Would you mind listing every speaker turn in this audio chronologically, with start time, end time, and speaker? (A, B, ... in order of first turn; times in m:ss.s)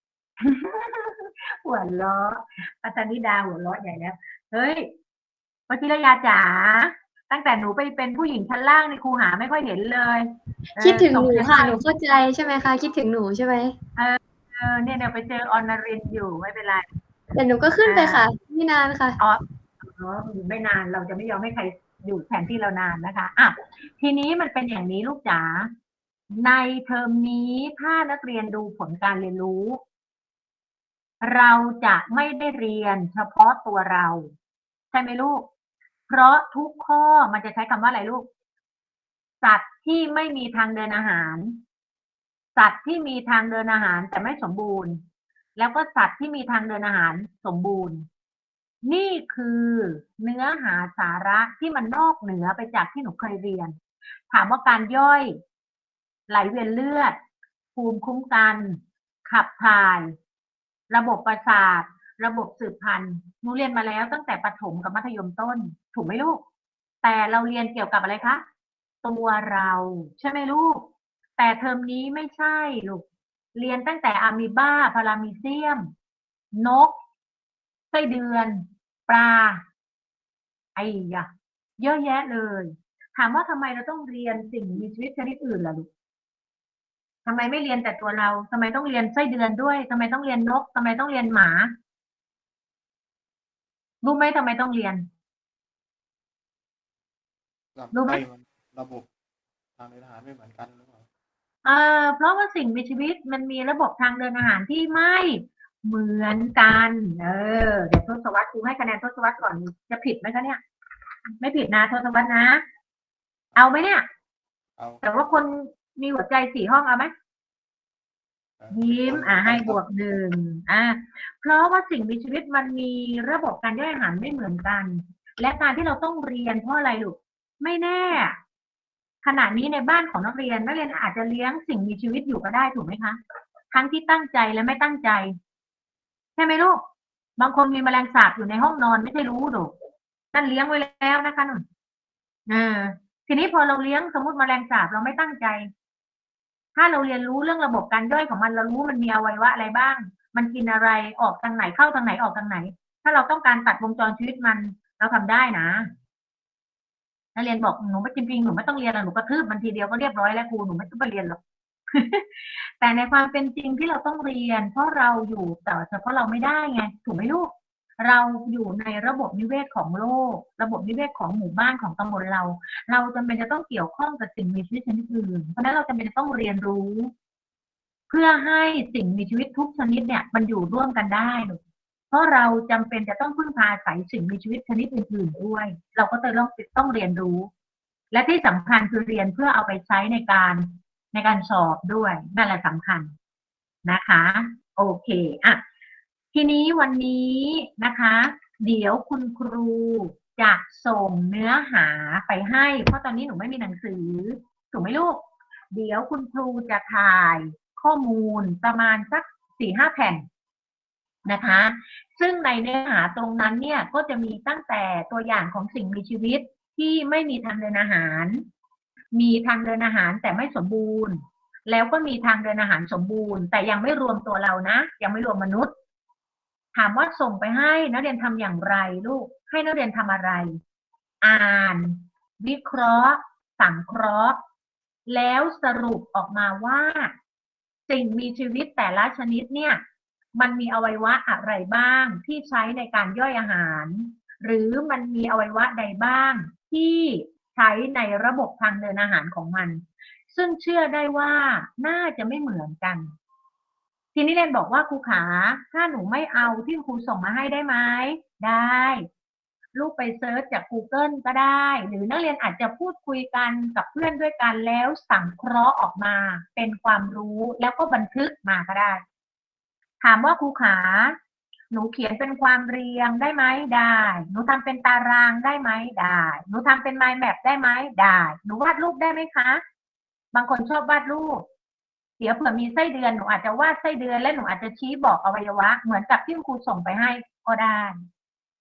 0:00.4-0:04.9 A
0:05.7-0:11.8 A
0:10.8-0:13.8 B
0:14.0-0:16.8 A
0:17.3-0:19.2 B
0:17.8-0:18.2 A
0:19.2-0:25.7 A
0:26.3-0:29.8 A
0:31.2-0:34.3 A
0:34.9-0:35.4 A
0:36.1-0:38.3 A
0:39.4-0:41.6 A
0:42.6-0:45.0 A
0:45.6-0:48.1 A
0:48.8-0:53.7 A
0:54.3-0:55.4 A
0:56.3-0:57.2 A
0:57.7-1:00.1 A
1:00.9-1:06.4 A
1:07.0-1:08.4 A
1:09.0-1:10.8 A
1:11.4-1:13.0 A
1:13.5-1:15.9 A
1:16.5-1:17.0 A
1:17.9-1:19.6 A
1:20.8-1:21.3 A
1:21.8-1:25.9 A
1:27.2-1:31.7 A
1:34.0-1:35.0 A
1:37.8-1:39.1 C
1:37.9-1:38.2 A
1:39.8-1:41.0 C
1:41.6-1:50.6 A
1:51.4-1:52.6 A
1:53.6-1:54.0 A
1:54.8-1:55.0 C
1:55.0-1:57.1 A
1:58.6-1:59.8 C
1:58.7-2:08.4 A
2:09.2-2:13.2 A
2:13.7-2:15.3 A
2:16.4-2:16.8 A
2:17.4-2:19.7 A
2:20.3-2:21.6 A
2:22.5-2:25.7 A
2:26.8-2:35.9 A
2:37.3-2:41.4 A
2:41.9-2:57.1 A
2:58.1-3:01.6 A
3:02.1-3:07.5 A
3:08.1-3:13.1 A
3:13.8-3:15.6 A
3:16.3-3:30.2 A
3:31.2-3:38.4 A
3:39.1-3:45.7 A
3:46.7-3:50.6 A
3:51.2-3:54.4 A
3:55.1-3:57.1 A
3:57.9-3:59.8 A
4:00.4-4:13.1 A
4:14.1-4:19.1 A
4:19.7-4:29.0 A
4:30.0-4:31.2 A
4:31.7-4:39.6 A
4:40.3-4:41.4 A
4:42.2-4:48.0 A